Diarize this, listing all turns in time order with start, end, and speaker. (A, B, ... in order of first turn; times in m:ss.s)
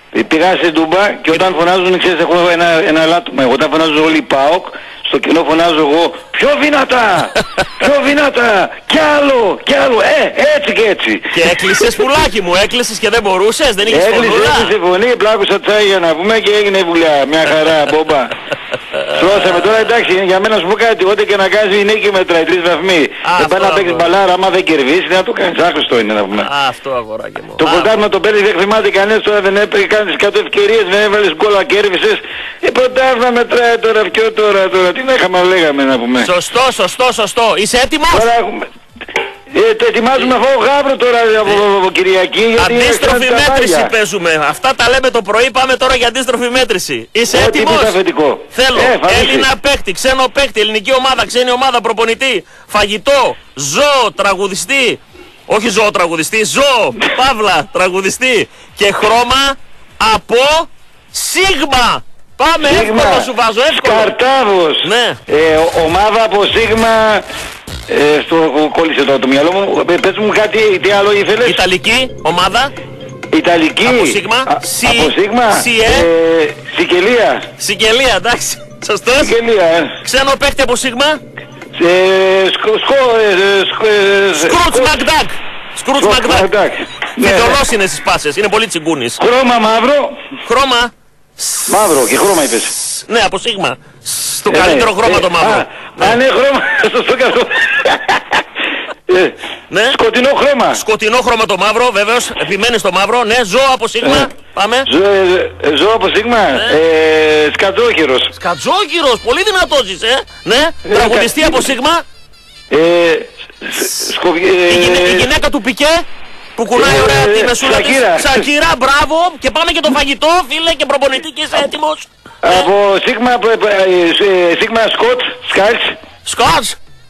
0:00.1-0:11.9 A
0:11.3-0:14.8 B
0:13.9-0:18.3 A
0:19.1-0:26.5 A
0:19.3-0:19.7 B
0:23.2-0:24.1 B
0:26.4-0:27.9 B
0:27.6-0:36.3 A
0:36.2-0:38.3 B
0:38.1-0:38.7 A
0:39.5-0:43.9 A
0:42.6-0:48.0 B
0:47.3-0:49.5 A
0:48.5-1:04.1 B
1:02.6-1:07.2 A
1:04.8-1:05.2 B
1:07.9-1:11.6 A
1:11.4-1:12.7 B
1:13.3-1:17.5 A
1:13.8-1:16.1 B
1:17.6-1:19.4 B
1:19.2-1:20.0 A
1:20.0-1:21.2 B
1:21.8-1:24.9 A
1:24.4-1:26.5 B
1:26.0-1:27.6 A
1:27.2-1:29.2 B
1:29.2-1:30.2 A
1:30.4-1:32.0 B
1:31.7-1:32.7 A
1:32.8-1:36.2 B
1:34.5-1:38.4 A
1:39.1-1:39.4 A
1:39.7-1:40.0 B
1:39.9-1:40.8 A
1:40.7-1:44.9 B
1:44.0-1:44.3 A
1:44.8-1:48.3 A
1:48.4-1:52.0 B
1:50.8-1:51.6 A
1:52.7-1:55.3 A
1:54.7-1:56.0 B
1:56.6-2:02.7 B
1:56.7-1:58.5 A
2:02.4-2:06.0 A
2:06.2-2:06.8 B